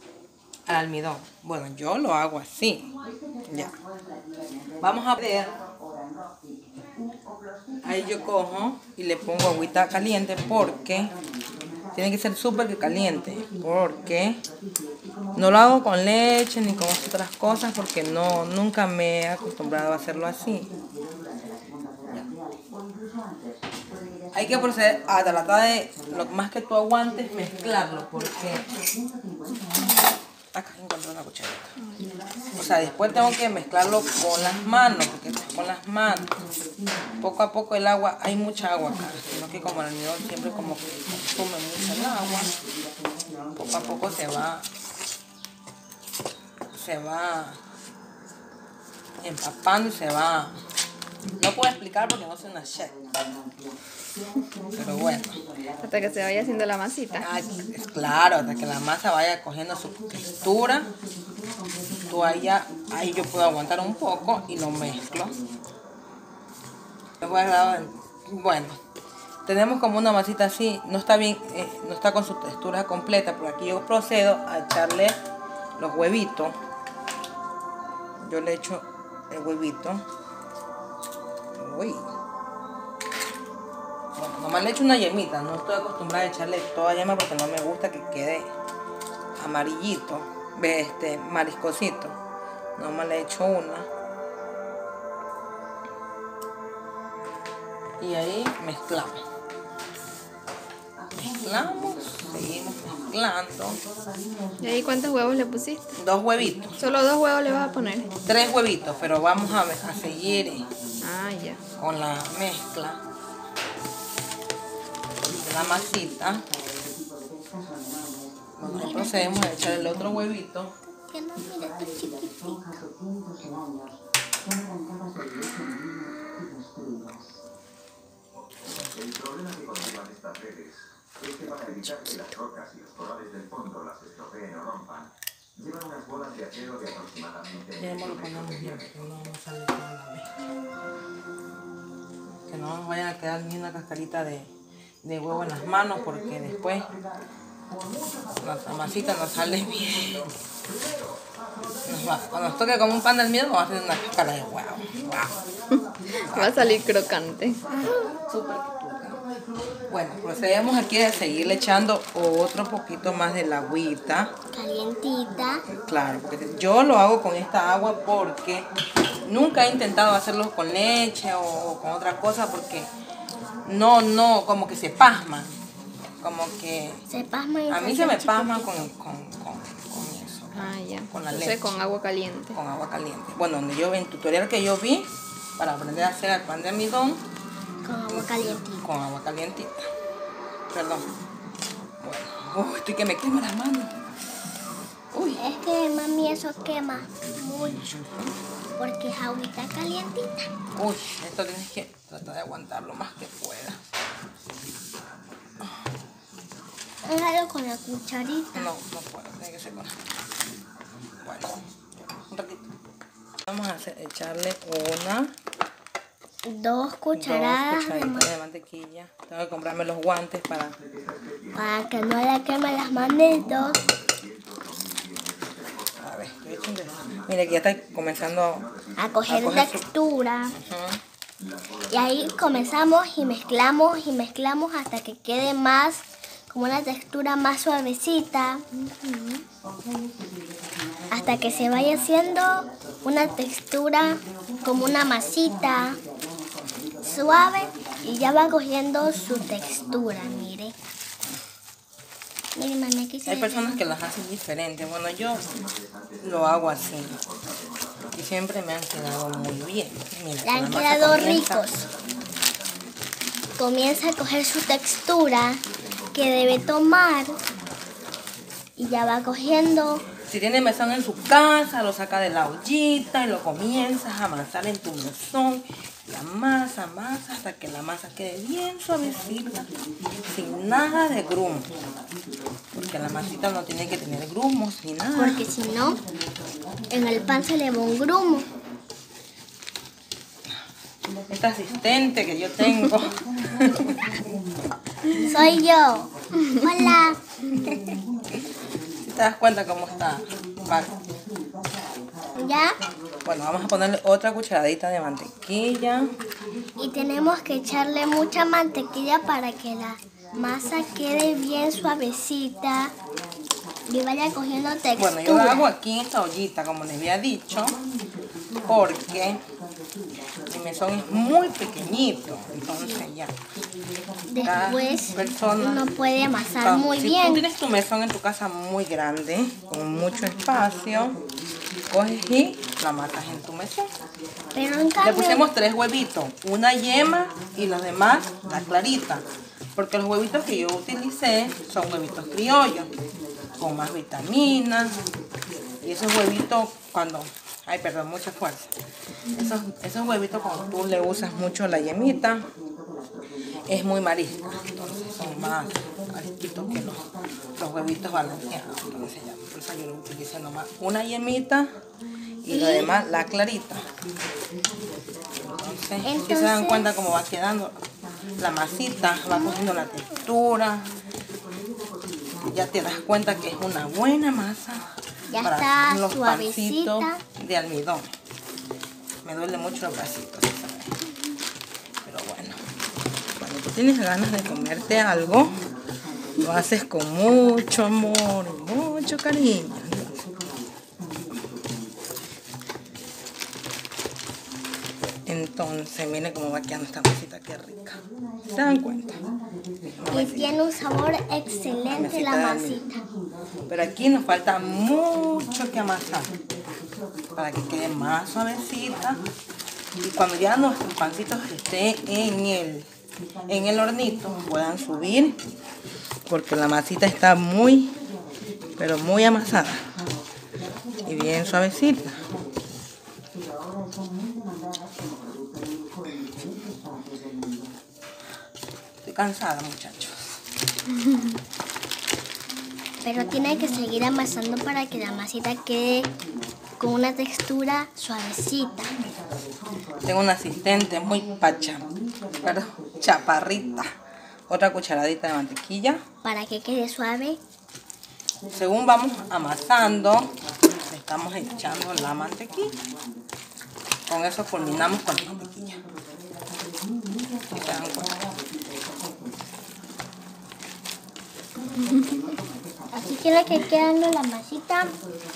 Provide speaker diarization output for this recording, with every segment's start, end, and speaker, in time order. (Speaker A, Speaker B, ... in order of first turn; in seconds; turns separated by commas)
Speaker A: 0.7-2.9, Speaker A: 3.5-3.8, Speaker A: 4.8-5.6, Speaker A: 7.8-11.1, Speaker A: 11.9-14.4, Speaker A: 15.3-20.7, Speaker A: 24.3-28.7, Speaker A: 30.5-31.7, Speaker B: 31.8-32.1, Speaker A: 32.5-36.3, Speaker A: 37.2-42.6, Speaker A: 43.5-44.7, Speaker A: 46.7-47.6, Speaker A: 49.2-50.6, Speaker A: 51.4-53.0, Speaker A: 54.8-55.4, Speaker B: 55.8-57.3, Speaker A: 57.2-60.9, Speaker A: 62.1-65.4, Speaker A: 67.2-68.8, Speaker A: 69.4-75.2, Speaker A: 75.8-76.6, Speaker A: 78.2-80.0, Speaker A: 81.5-82.1, Speaker A: 84.1-88.5, Speaker A: 89.4-92.2, Speaker A: 92.8-93.9, Speaker A: 98.0-99.2, Speaker A: 101.2-103.8, Speaker B: 104.6-106.0, Speaker A: 106.0-106.8, Speaker B: 106.8-108.1, Speaker A: 108.2-110.7, Speaker B: 111.0-111.6, Speaker A: 111.8-113.0, Speaker A: 115.3-116.5, Speaker A: 118.6-120.7, Speaker C: 118.7-119.6, Speaker C: 120.9-122.7, Speaker A: 137.8-140.3, Speaker A: 142.5-144.5, Speaker A: 145.0-146.9, Speaker A: 148.4-150.3, Speaker A: 151.8-155.3, Speaker B: 156.2-157.6, Speaker A: 156.3-156.9, Speaker A: 157.8-159.2, Speaker A: 159.9-164.3, Speaker C: 164.5-165.6, Speaker A: 165.8-168.7, Speaker A: 169.2-172.9, Speaker A: 173.6-175.6, Speaker A: 176.2-177.0, Speaker C: 177.1-178.9, Speaker A: 177.7-181.6, Speaker B: 180.5-182.6, Speaker A: 182.5-187.2, Speaker C: 187.8-188.9, Speaker A: 188.1-189.8, Speaker A: 190.7-191.1, Speaker A: 192.0-194.1, Speaker A: 195.1-195.4, Speaker C: 195.3-197.8, Speaker A: 197.5-198.3, Speaker C: 198.8-200.5, Speaker A: 200.8-203.8, Speaker C: 207.0-208.7, Speaker A: 208.5-209.9, Speaker A: 211.2-211.6, Speaker A: 212.3-212.7, Speaker A: 213.5-215.3, Speaker C: 216.4-218.3, Speaker A: 217.1-220.8, Speaker C: 221.5-223.8, Speaker A: 226.0-228.7, Speaker C: 229.0-230.6, Speaker A: 229.3-229.8, Speaker A: 230.6-231.0, Speaker C: 231.9-238.6, Speaker B: 238.7-239.4, Speaker C: 241.1-246.0, Speaker C: 247.0-250.7, Speaker C: 252.5-253.8, Speaker A: 253.2-255.5, Speaker A: 256.2-257.2, Speaker A: 258.1-261.7, Speaker C: 260.4-261.9, Speaker C: 263.6-267.4, Speaker C: 268.8-270.0, Speaker A: 270.2-279.7, Speaker A: 280.3-281.7, Speaker A: 282.7-285.4, Speaker C: 285.1-286.0, Speaker C: 286.9-288.5, Speaker A: 291.3-294.0, Speaker C: 295.2-297.2, Speaker A: 299.0-300.9, Speaker C: 302.3-302.8, Speaker A: 303.2-306.2, Speaker C: 306.8-312.9, Speaker C: 313.9-315.7, Speaker A: 315.0-317.8, Speaker A: 318.6-319.4, Speaker A: 320.4-323.4, Speaker C: 322.7-323.1, Speaker C: 324.3-327.4, Speaker A: 324.4-325.9, Speaker A: 326.6-331.2, Speaker A: 331.9-333.9, Speaker C: 334.5-335.4, Speaker A: 335.0-342.9, Speaker A: 343.6-345.0, Speaker A: 345.8-348.7, Speaker A: 349.3-352.5, Speaker A: 353.7-361.8, Speaker A: 362.4-363.9, Speaker C: 362.5-362.9, Speaker A: 365.4-367.8, Speaker C: 366.0-367.0, Speaker A: 368.4-370.9, Speaker C: 369.3-370.2, Speaker A: 372.4-378.1, Speaker C: 375.3-377.2, Speaker A: 379.2-380.9, Speaker A: 382.0-382.6, Speaker A: 383.3-385.6, Speaker A: 386.4-390.3, Speaker A: 395.2-399.2, Speaker A: 399.8-400.5, Speaker C: 400.1-403.0, Speaker A: 401.9-402.8, Speaker A: 403.7-406.4, Speaker A: 407.4-409.2, Speaker A: 410.0-412.9, Speaker A: 413.5-415.4, Speaker A: 416.3-418.0, Speaker A: 418.8-419.9, Speaker A: 421.0-422.3, Speaker A: 429.0-430.3, Speaker C: 433.0-436.1, Speaker C: 436.8-439.1, Speaker A: 440.0-441.9, Speaker A: 442.4-443.9, Speaker A: 444.5-446.0, Speaker C: 446.2-447.4, Speaker A: 448.5-450.3, Speaker A: 450.9-452.8, Speaker A: 454.1-455.8, Speaker A: 457.5-458.3, Speaker C: 462.9-465.0